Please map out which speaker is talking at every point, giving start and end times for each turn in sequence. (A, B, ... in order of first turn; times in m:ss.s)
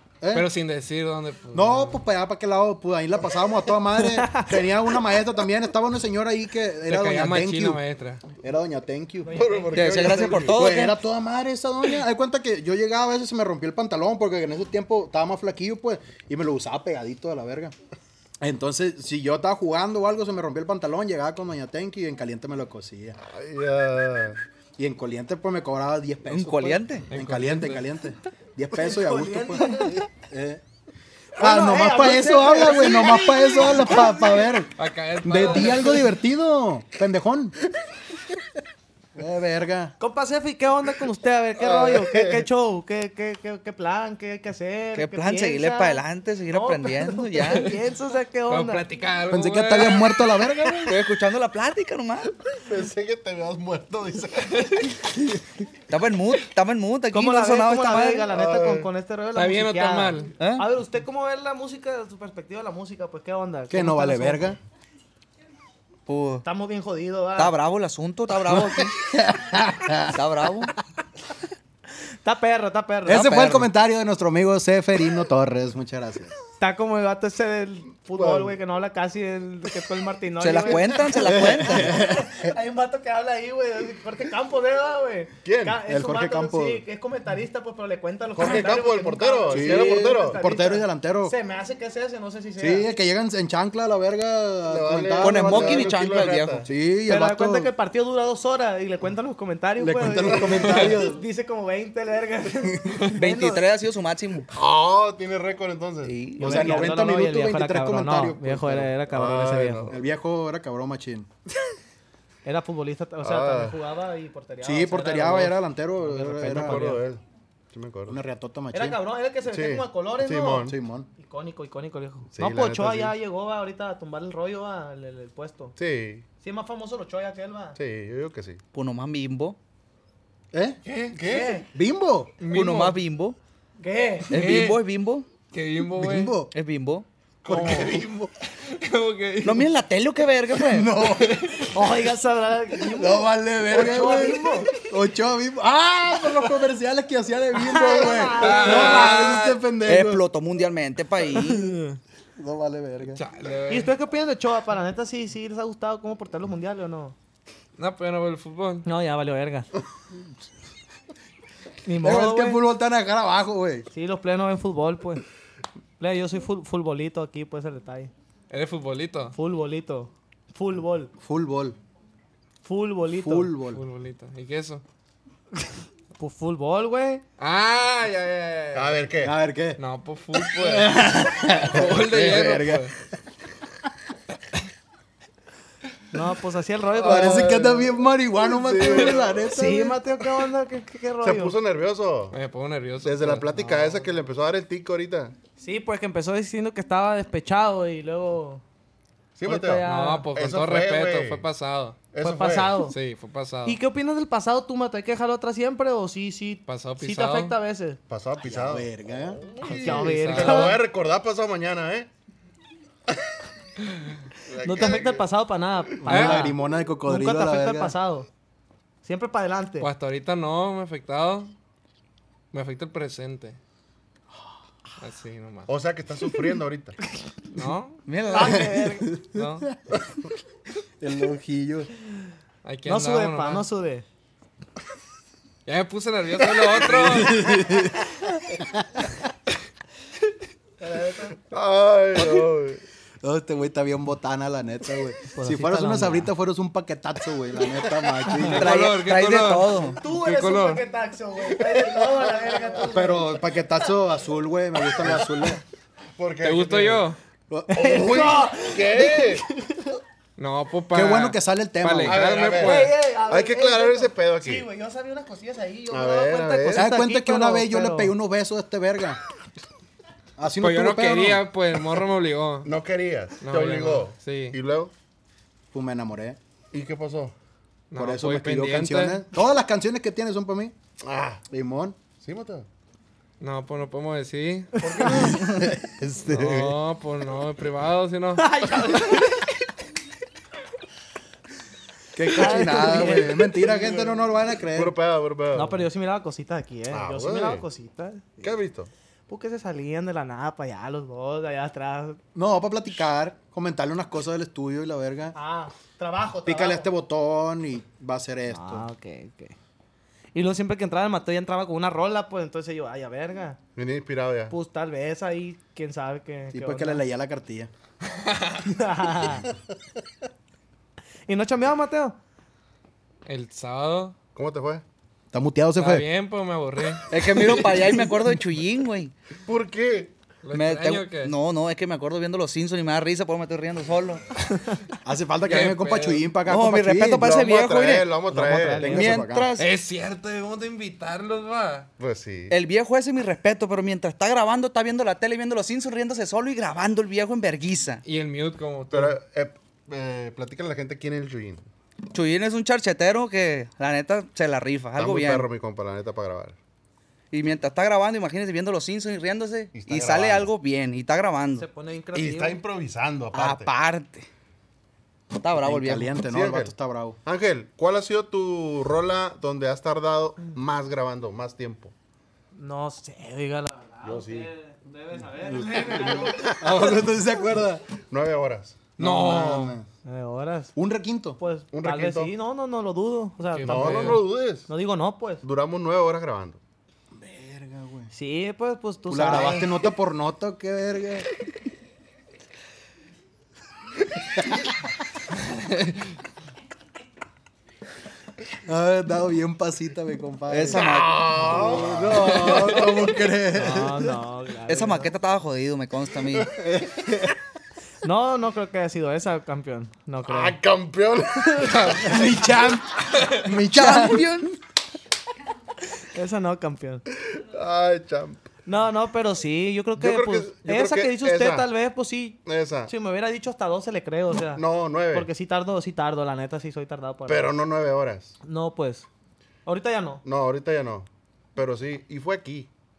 0:00.2-0:00.5 A
0:00.3-0:02.0 B
0:01.5-0:07.8 A
0:04.0-0:04.5 C
0:06.9-0:08.2 B
0:08.4-0:09.3 A
0:09.2-0:10.4 C
0:09.3-0:10.7 D
0:09.7-0:11.0 E
0:10.5-0:17.7 A
0:18.4-0:23.2 A
0:23.2-0:24.4 D
0:24.8-0:30.6 A
0:26.3-0:27.1 E
0:27.1-0:27.8 B
0:28.7-0:30.1 C
0:31.4-0:34.5 C
0:31.4-0:37.6 A
0:34.8-0:36.1 B
0:39.1-0:39.9 A
0:40.0-0:48.8 C
0:41.6-0:42.4 D
0:44.9-0:47.7 E
0:48.5-0:50.4 B
0:49.3-0:51.0 A
0:50.9-0:52.3 E
0:52.5-0:54.9 D
0:55.9-0:58.3 E
0:57.1-1:04.5 C
0:58.3-0:58.9 D
0:59.3-1:00.3 B
1:00.4-1:00.6 E
1:03.7-1:04.6 A
1:06.1-1:06.4 E
1:06.4-1:07.6 C
1:07.4-1:09.0 E
1:08.5-1:10.2 A
1:10.1-1:10.7 E
1:12.2-1:13.3 C
1:13.1-1:16.3 A
1:13.1-1:13.7 E
1:16.6-1:32.9 C
1:18.1-1:18.6 D
1:20.4-1:22.0 E
1:21.2-1:22.5 A
1:25.4-1:25.8 D
1:25.9-1:26.8 A
1:28.3-1:30.4 D
1:29.5-1:31.3 A
1:32.6-1:35.9 A
1:34.7-1:36.7 D
1:35.2-1:36.6 E
1:36.6-1:37.7 A
1:37.1-1:43.6 C
1:39.8-1:41.2 A
1:40.6-1:40.9 B
1:43.1-1:44.5 E
1:44.5-1:46.2 D
1:46.0-1:46.8 E
1:46.4-1:49.9 C
1:46.4-1:48.9 A
1:49.1-1:50.0 D
1:49.9-1:51.3 A
1:52.4-1:57.0 C
1:53.2-1:53.8 D
1:54.6-1:56.9 A
1:56.5-1:58.2 D
1:58.1-1:59.0 A
1:58.7-2:05.8 C
1:59.5-2:00.8 D
2:00.6-2:01.1 A
2:02.3-2:03.1 D
2:05.8-2:06.2 D
2:06.4-2:07.8 C
2:07.8-2:08.6 D
2:08.7-2:09.6 E
2:10.5-2:10.8 A
2:10.9-2:11.2 B
2:11.1-2:11.6 D
2:11.2-2:11.7 C
2:11.7-2:12.3 A
2:12.4-2:13.0 B
2:12.5-2:13.4 E
2:13.8-2:14.3 C
2:14.3-2:14.8 B
2:14.3-2:15.3 E
2:15.5-2:16.3 B
2:16.0-2:16.5 A
2:16.5-2:17.0 E
2:17.4-2:18.3 D
2:17.5-2:18.1 A
2:18.5-2:19.7 B
2:19.4-2:20.9 E
2:20.7-2:21.6 A
2:21.0-2:21.7 B
2:21.7-2:24.7 C
2:22.8-2:30.2 A
2:27.5-2:29.5 C
2:28.4-2:29.6 B
2:29.8-2:31.8 E
2:31.3-2:32.0 C
2:32.4-2:33.2 A
2:33.1-2:33.9 B
2:33.7-2:37.1 C
2:37.8-2:38.9 B
2:38.8-2:39.7 C
2:41.8-2:42.6 C
2:42.0-2:43.9 A
2:43.9-2:45.2 C
2:46.0-2:48.1 C
2:48.5-2:49.4 B
2:49.3-2:51.1 C
2:51.2-2:51.8 A
2:52.6-2:53.5 C
2:53.1-2:53.8 A
2:53.7-2:54.8 B
2:56.2-2:57.2 C
2:57.4-2:59.0 B
2:58.7-2:59.3 D
2:59.2-2:59.8 A
2:59.8-3:02.9 B
3:00.5-3:02.9 A
3:06.1-3:07.6 C
3:06.9-3:09.4 D
3:07.0-3:10.0 A
3:09.5-3:11.6 C
3:11.2-3:12.4 D
3:12.3-3:13.5 B
3:13.0-3:15.3 D
3:13.6-3:14.0 C
3:15.6-3:18.6 C
3:19.4-3:21.4 D
3:19.4-3:20.3 C
3:19.8-3:22.0 B
3:22.1-3:22.8 D
3:22.2-3:22.9 C
3:22.9-3:23.8 B
3:23.6-3:28.0 C
3:26.7-3:27.6 B
3:28.1-3:32.1 D
3:28.4-3:29.4 A
3:29.6-3:30.8 C
3:29.8-3:30.8 B
3:34.4-3:35.2 D
3:34.6-3:38.3 C
3:36.0-3:37.9 A
3:36.1-3:36.5 B
3:39.0-3:39.9 C
3:39.8-3:41.5 B
3:42.5-3:43.6 B
3:45.0-3:45.7 B
3:45.7-3:47.0 D
3:47.5-3:48.0 B
3:48.1-3:48.7 E
3:48.3-3:49.1 C
3:49.1-3:49.8 A
3:49.3-3:49.7 B
3:51.0-3:51.9 A
3:52.6-3:53.6 B
3:52.9-3:54.0 C
3:55.6-3:57.5 B
3:56.8-3:59.1 A
4:00.8-4:01.4 C
4:01.5-4:02.8 D
4:03.2-4:08.7 A
4:05.3-4:06.3 C
4:08.3-4:08.6 C
4:08.4-4:10.8 B
4:08.5-4:10.0 E
4:10.0-4:13.6 C
4:12.9-4:15.6 A
4:15.0-4:15.3 D
4:16.2-4:17.0 D
4:16.4-4:17.2 B
4:17.5-4:18.4 A
4:17.7-4:20.0 C
4:17.7-4:19.4 D
4:20.4-4:22.9 B
4:20.9-4:22.2 A
4:22.0-4:24.7 D
4:22.6-4:28.1 C
4:25.9-4:26.9 D
4:26.7-4:29.2 A
4:30.4-4:31.5 A
4:30.6-4:32.7 B
4:32.6-4:34.9 D
4:33.4-4:34.6 B
4:35.7-4:36.4 A
4:36.7-4:37.3 D
4:37.9-4:39.2 B
4:37.9-4:40.7 A
4:41.0-4:41.4 D
4:41.5-4:42.0 A
4:42.2-4:42.7 D
4:43.4-4:44.9 B
4:44.8-4:45.4 D
4:44.8-4:45.4 C
4:45.1-4:46.7 A
4:46.3-4:48.6 B
4:48.4-4:49.5 C
4:52.1-4:54.9 A
4:52.3-4:54.1 C
4:54.7-4:55.8 D
4:55.5-4:58.5 C
4:56.9-4:57.6 D
4:58.4-4:58.9 D
4:59.3-5:02.2 C
5:02.3-5:05.4 A
5:05.3-5:06.9 C
5:06.4-5:08.9 A
5:08.5-5:09.6 C
5:10.3-5:13.6 C
5:13.8-5:14.5 D
5:14.5-5:17.0 C
5:16.5-5:17.7 A
5:18.1-5:18.6 B
5:18.6-5:19.5 C
5:21.3-5:22.2 C
5:23.2-5:24.1 B
5:24.3-5:24.8 D
5:25.3-5:26.0 A
5:25.8-5:27.1 B
5:27.1-5:29.1 E
5:29.4-5:30.1 D
5:30.4-5:31.3 B
5:30.5-5:34.2 E
5:35.0-5:37.3 A
5:35.4-5:36.3 B
5:36.4-5:38.2 E
5:37.2-5:39.0 D
5:38.3-5:39.2 C
5:38.7-5:39.5 A
5:38.9-5:39.7 E
5:39.6-5:41.9 B
5:42.0-5:42.6 D
5:42.5-5:48.0 E
5:48.0-5:49.2 B
5:48.9-5:51.6 D
5:52.1-5:55.5 E
5:55.0-5:56.6 D
5:57.3-6:01.6 E
5:59.7-6:00.5 D
6:01.5-6:02.6 C
6:02.1-6:03.7 D
6:03.3-6:04.3 E
6:05.3-6:06.1 E
6:05.6-6:07.2 A
6:06.2-6:06.7 D
6:07.2-6:11.9 D
6:12.5-6:16.8 C
6:14.0-6:14.5 D
6:15.5-6:17.8 A
6:15.9-6:16.5 D
6:18.1-6:18.9 D
6:19.0-6:19.8 B
6:19.0-6:19.9 A
6:20.0-6:20.7 C
6:20.8-6:21.4 A
6:21.4-6:25.4 C
6:21.7-6:22.3 D
6:23.5-6:24.2 B
6:23.6-6:24.7 D
6:25.4-6:26.6 D
6:27.1-6:28.1 A
6:28.1-6:29.8 C
6:29.1-6:31.3 A
6:38.6-6:44.1 A
6:40.5-6:41.8 E
6:40.7-6:43.2 D
6:43.5-6:45.1 C
6:44.7-6:46.5 E
6:46.5-6:46.9 D
6:46.9-6:47.1 A
6:48.0-6:50.6 C
6:50.2-6:52.2 D
6:51.4-6:52.0 C
6:51.7-6:52.2 B
6:52.0-6:54.5 A
6:53.2-6:53.4 B
6:53.7-6:54.5 E
6:56.0-6:57.0 C
6:57.3-6:58.4 D
6:58.6-7:07.5 C
7:00.0-7:01.7 D
7:02.4-7:02.9 D
7:04.5-7:05.3 D
7:07.3-7:08.4 D
7:08.4-7:09.1 C
7:09.6-7:10.2 C
7:10.2-7:12.7 D